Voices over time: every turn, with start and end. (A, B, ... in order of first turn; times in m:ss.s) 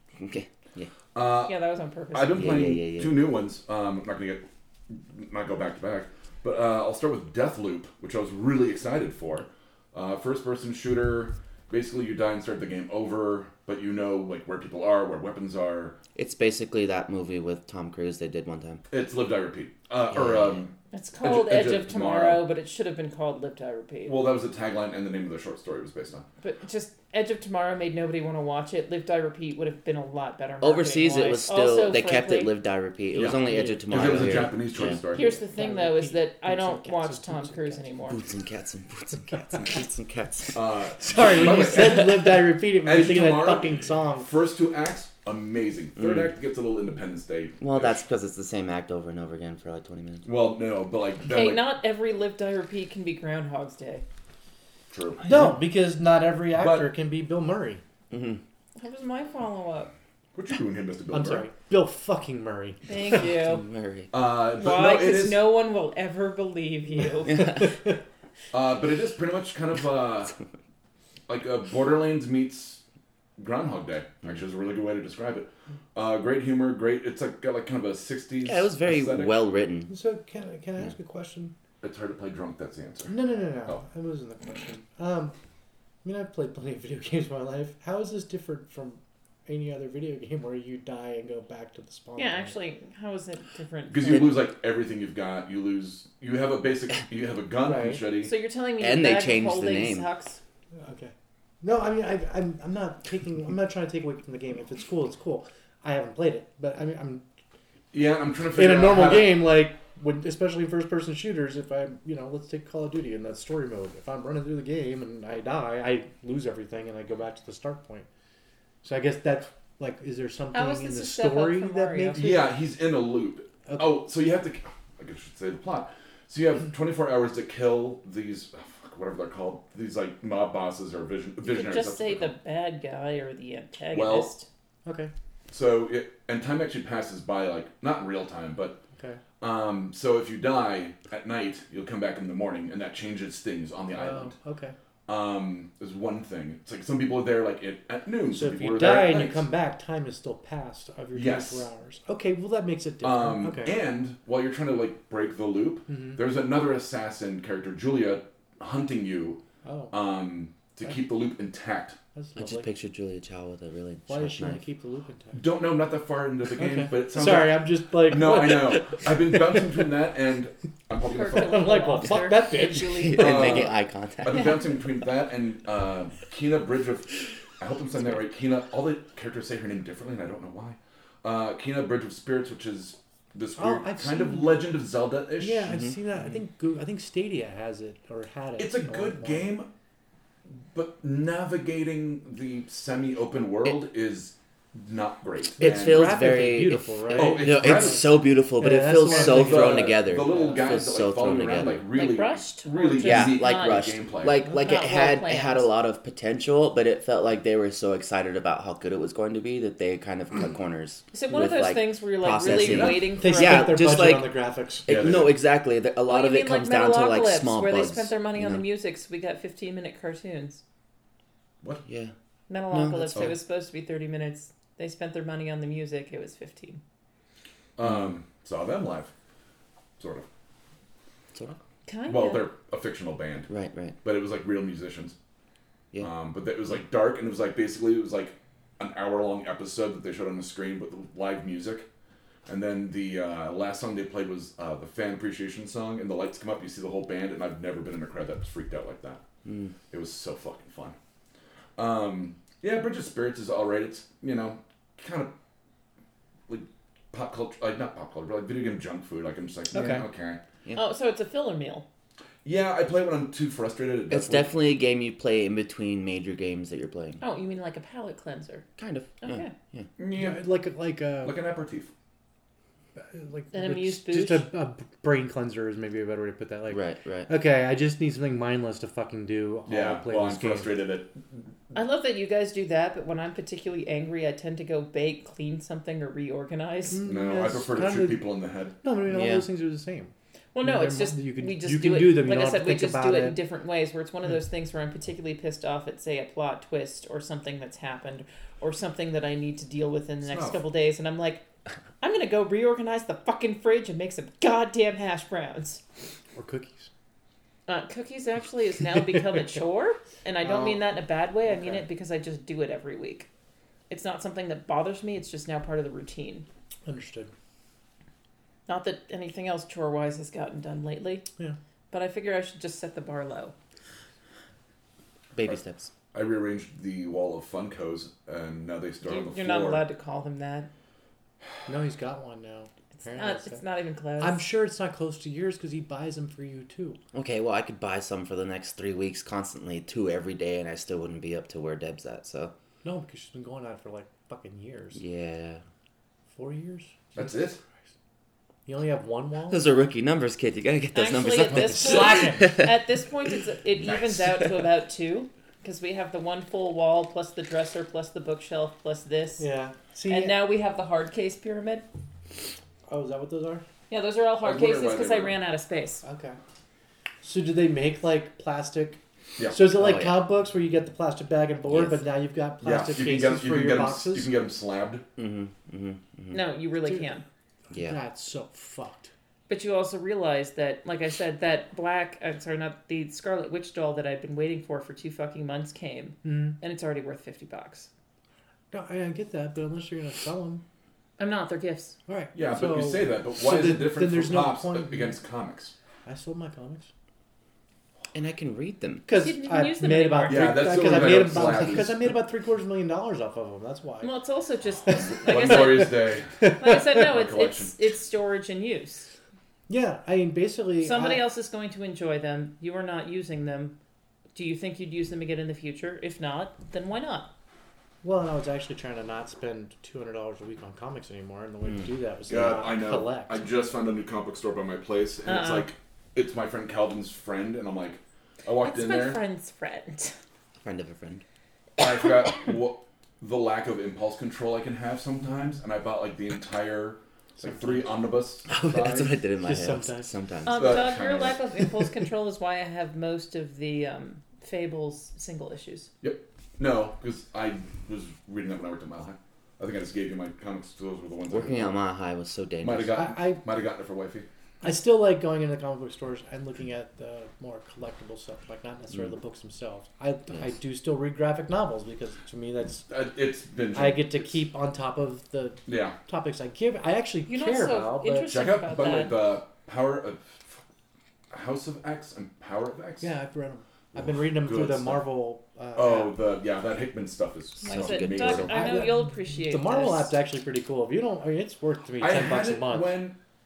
0:00.2-0:00.9 A
0:01.1-0:01.6 B
0:01.4-0:02.6 C
0:02.1-0:16.0 B
0:02.3-0:03.1 A
0:16.1-0:18.8 A
0:18.9-0:22.4 B
0:20.1-0:20.6 A
0:20.9-0:24.2 C
0:24.0-0:26.2 B
0:26.4-0:32.5 C
0:30.6-0:35.0 A
0:33.1-0:35.4 B
0:33.4-0:34.5 D
0:35.0-0:37.9 D
0:35.1-0:38.2 C
0:38.1-0:40.6 A
0:40.5-0:48.0 B
0:41.0-0:44.3 D
0:41.1-0:42.3 A
0:46.0-0:46.3 A
0:47.6-0:50.3 A
0:50.2-0:51.7 B
0:51.3-0:54.0 C
0:54.9-0:55.5 B
0:55.2-0:57.8 D
0:56.5-0:56.9 B
0:58.1-0:58.4 A
0:58.8-0:59.9 C
1:00.3-1:01.5 B
1:01.1-1:03.2 D
1:02.9-1:03.6 C
1:03.2-1:04.1 A
1:04.1-1:05.5 B
1:04.5-1:07.7 C
1:07.0-1:07.9 D
1:07.3-1:07.7 A
1:08.5-1:10.3 B
1:11.3-1:12.8 B
1:13.4-1:19.3 B
1:18.4-1:19.9 A
1:19.9-1:21.5 D
1:21.8-1:23.8 B
1:23.1-1:25.3 D
1:26.0-1:32.5 D
1:32.2-1:34.3 C
1:33.9-1:38.3 B
1:37.6-1:38.0 D
1:38.2-1:40.4 C
1:38.8-1:40.1 A
1:40.8-1:47.2 D
1:47.9-1:49.5 B
1:48.5-1:58.1 D
1:58.8-2:02.5 D
2:00.5-2:02.3 C
2:02.1-2:12.3 B
2:03.7-2:04.0 D
2:11.4-2:14.5 C
2:13.9-2:14.3 B
2:14.8-2:15.1 D
2:15.5-2:18.8 B
2:19.0-2:19.2 D
2:19.4-2:24.3 B
2:23.9-2:24.8 D
2:25.1-2:29.4 B
2:28.3-2:33.8 D
2:31.1-2:31.6 B
2:33.0-2:42.0 B
2:35.9-2:36.2 D
2:39.6-2:39.9 D
2:42.1-2:42.7 D
2:42.4-2:44.6 A
2:44.1-2:45.4 D
2:45.3-2:52.0 B
2:46.6-2:49.1 D
2:51.0-2:53.7 C
2:51.3-2:53.6 D
2:52.8-2:54.6 A
2:53.2-3:05.7 B
3:03.6-3:04.7 D
3:05.4-3:09.5 D
3:05.6-3:06.0 A
3:08.6-3:09.7 B
3:10.7-3:16.2 B
3:15.6-3:20.7 D
3:15.6-3:21.8 A
3:17.1-3:18.1 B
3:19.1-3:24.4 B
3:21.9-3:23.9 C
3:23.0-3:38.6 A
3:24.6-3:25.7 C
3:31.1-3:33.8 C
3:32.4-3:33.1 B
3:33.2-3:35.1 D
3:34.9-3:35.4 B
3:36.1-3:40.6 C
3:41.8-3:42.1 A
3:42.5-3:46.8 C
3:42.7-3:43.3 A
3:47.8-3:49.1 B
3:47.8-3:48.1 A
3:50.0-3:50.3 B
3:51.8-3:52.5 C
3:52.1-3:53.5 B
3:53.5-3:54.0 A
3:54.0-3:55.2 B
3:56.0-4:01.9 B
4:02.4-4:09.2 B
4:09.4-4:09.7 A
4:09.9-4:11.0 B
4:11.8-4:15.3 B
4:16.5-4:20.4 B
4:19.7-4:20.0 D
4:20.7-4:21.8 C
4:22.4-4:24.6 B
4:24.1-4:27.2 A
4:27.2-4:28.6 C
4:28.8-4:29.9 A
4:29.2-4:29.5 C
4:30.0-4:30.4 B
4:30.1-4:31.3 D
4:31.2-4:31.9 B
4:33.0-4:40.8 D
4:33.5-4:34.5 C
4:36.7-4:37.3 A
4:39.7-4:41.4 B
4:41.7-4:47.0 C
4:46.9-4:48.3 D
4:47.0-4:48.8 B
4:48.8-4:53.4 D
4:49.1-4:49.4 A
4:50.5-5:01.4 C
5:00.2-5:00.6 B
5:02.0-5:05.8 C
5:06.3-5:06.9 D
5:07.7-5:13.3 C
5:10.4-5:10.8 D
5:11.4-5:11.8 D
5:13.9-5:16.4 C
5:16.8-5:17.3 D
5:18.7-5:21.2 C
5:21.9-5:23.5 C
5:25.3-5:25.9 A
5:26.1-5:29.8 B
5:29.0-5:30.7 C
5:31.7-5:33.6 D
5:33.0-5:34.4 C
5:34.2-5:37.0 D
5:37.1-5:42.5 A
5:42.8-5:45.0 D
5:44.9-5:45.6 A
5:46.3-5:47.3 D
5:47.2-5:47.6 B
5:48.6-5:49.6 D
5:49.5-5:52.8 A
5:50.9-5:59.4 C
5:51.5-5:52.5 D
5:59.4-6:00.5 D
6:00.1-6:01.8 C
6:02.9-6:03.6 D
6:03.9-6:06.0 C
6:04.4-6:05.4 B
6:06.0-6:06.4 D
6:07.2-6:14.3 D
6:09.4-6:09.7 B
6:09.7-6:10.2 A
6:11.7-6:12.0 A
6:12.6-6:15.0 B
6:15.2-6:16.4 A
6:16.3-6:17.2 C
6:17.7-6:18.0 A
6:17.7-6:19.1 D
6:19.5-6:27.9 C
6:26.2-6:26.6 D
6:28.7-6:30.6 D
6:31.2-6:32.0 C
6:32.1-6:35.2 D
6:32.3-6:35.7 B
6:36.0-6:36.9 D
6:38.1-6:39.0 A
6:39.1-6:44.1 D
6:39.1-6:40.8 C
6:40.3-6:42.1 B
6:44.0-6:49.1 C
6:45.0-6:46.4 B
6:45.1-6:47.0 D
6:46.9-6:47.7 B
6:49.7-6:51.2 D
6:50.8-6:53.8 C
6:54.3-6:57.3 C
6:58.0-7:03.5 D
7:02.3-7:09.2 B
7:05.2-7:05.7 C
7:08.6-7:10.2 C
7:10.6-7:11.2 A
7:11.8-7:19.1 B
7:17.4-7:18.0 D
7:18.5-7:20.9 A
7:19.4-7:20.1 D
7:20.4-7:25.9 C
7:20.5-7:21.4 B
7:26.0-7:31.8 B
7:31.3-7:33.0 A
7:32.6-7:34.3 B
7:32.9-7:33.4 D
7:34.6-7:42.8 D
7:42.9-7:44.4 B
7:43.7-7:48.3 D
7:45.7-7:46.0 B
7:47.3-7:49.2 C
7:48.3-7:50.6 B
7:51.3-7:53.1 B
7:53.0-7:56.2 D
7:53.9-7:55.1 B
7:55.7-7:58.6 B
7:57.6-8:00.1 C
7:57.6-7:58.6 A
7:58.4-8:03.0 D
8:02.0-8:03.2 B